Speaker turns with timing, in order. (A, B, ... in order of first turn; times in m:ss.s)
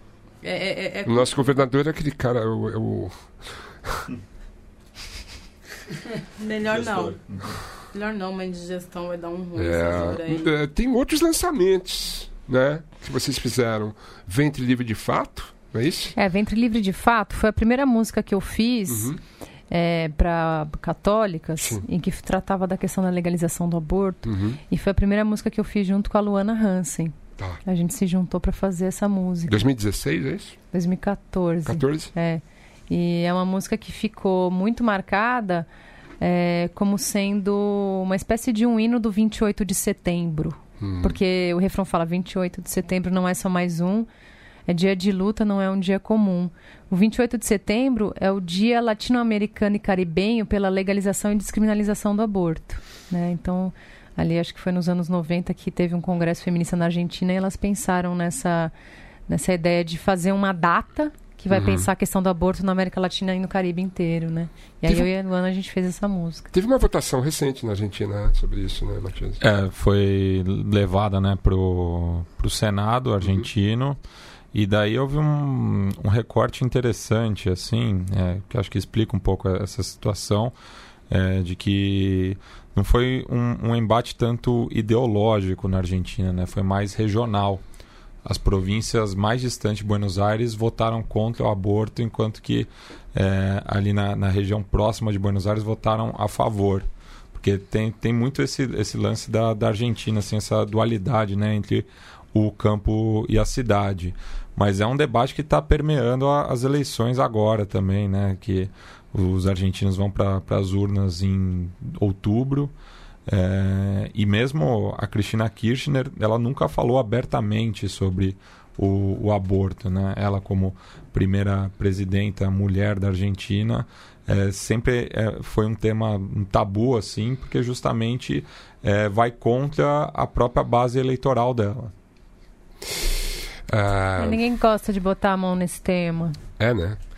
0:00.4-0:01.4 A
0:01.0-0:04.1 B
0:06.4-0:10.5 A
0:09.6-0:16.1 B
0:16.2-0:19.1 C
0:18.9-0:19.2 B
0:19.7-0:29.6 C
0:21.6-0:21.8 B
0:24.2-0:24.6 B
0:29.5-0:30.6 B
0:30.7-0:35.7 C
0:31.6-0:32.1 B
0:36.2-0:44.1 C
0:40.8-0:41.2 B
0:44.7-0:58.7 C
0:59.3-1:06.5 C
1:01.5-1:01.9 B
1:06.5-1:09.4 B
1:09.4-1:14.0 D
1:13.2-1:13.5 B
1:14.5-1:20.5 D
1:21.1-1:27.6 D
1:28.2-1:52.7 D
1:53.3-2:11.9 D
2:13.7-2:14.4 B
2:14.2-2:16.4 C
2:16.6-2:17.0 B